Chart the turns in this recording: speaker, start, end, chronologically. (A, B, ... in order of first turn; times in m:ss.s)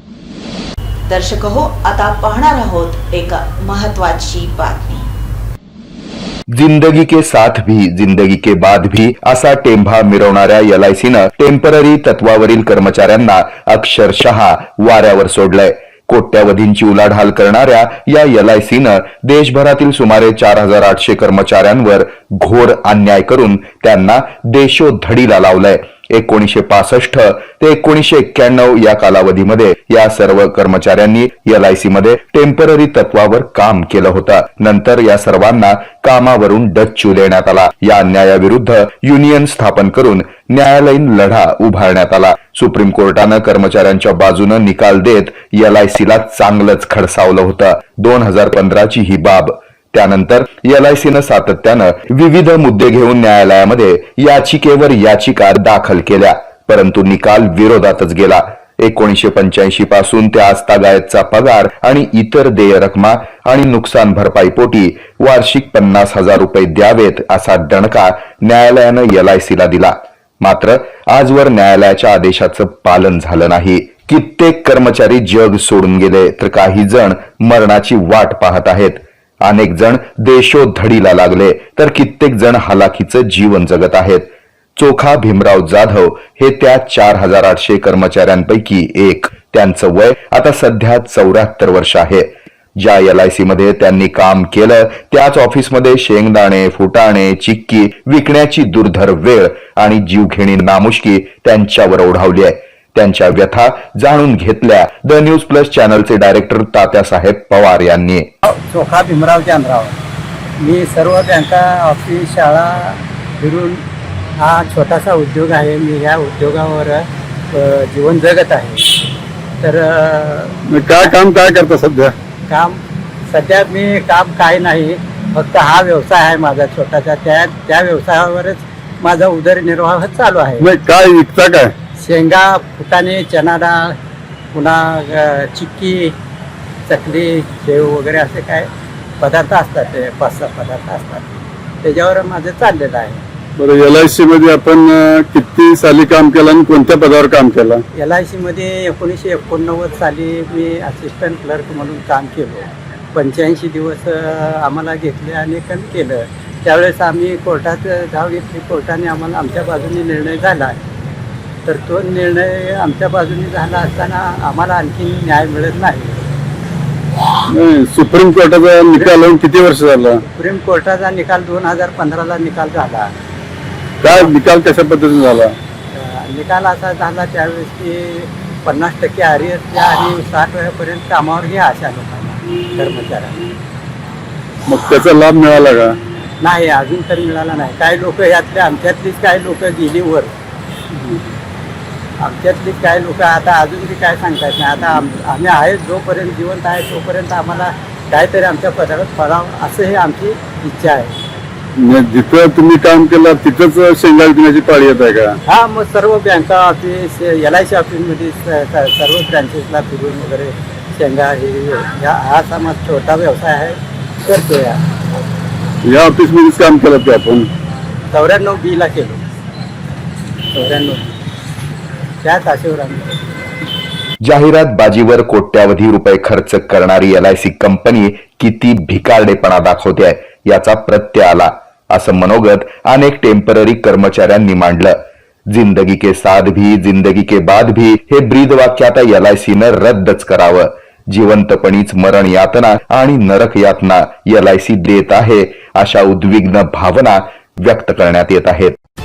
0:01.1-0:05.1 A
0:06.5-1:48.3 B
1:48.4-1:50.0 C
1:50.6-1:53.8 C
1:54.4-1:59.0 C
1:59.6-2:01.1 C
2:00.7-2:02.1 D
2:02.5-2:10.7 C
2:10.6-2:11.7 D
2:12.0-2:13.9 C
2:14.5-2:16.1 C
2:16.9-2:18.7 C
2:19.2-2:21.2 C
2:21.8-2:23.2 C
2:23.6-2:27.8 D
2:27.9-2:40.8 C
2:41.6-2:46.2 C
2:47.5-2:50.2 D
2:50.2-2:53.1 C
2:54.0-2:55.6 D
2:55.9-3:03.4 C
3:04.7-3:05.9 D
3:06.4-3:10.3 C
3:12.2-3:21.2 C
3:21.8-3:25.3 D
3:25.5-3:34.8 C
3:35.8-3:37.5 D
3:38.1-3:39.2 C
3:40.5-3:41.2 C
3:42.2-3:43.2 C
3:44.2-3:55.0 B
3:55.5-4:08.7 B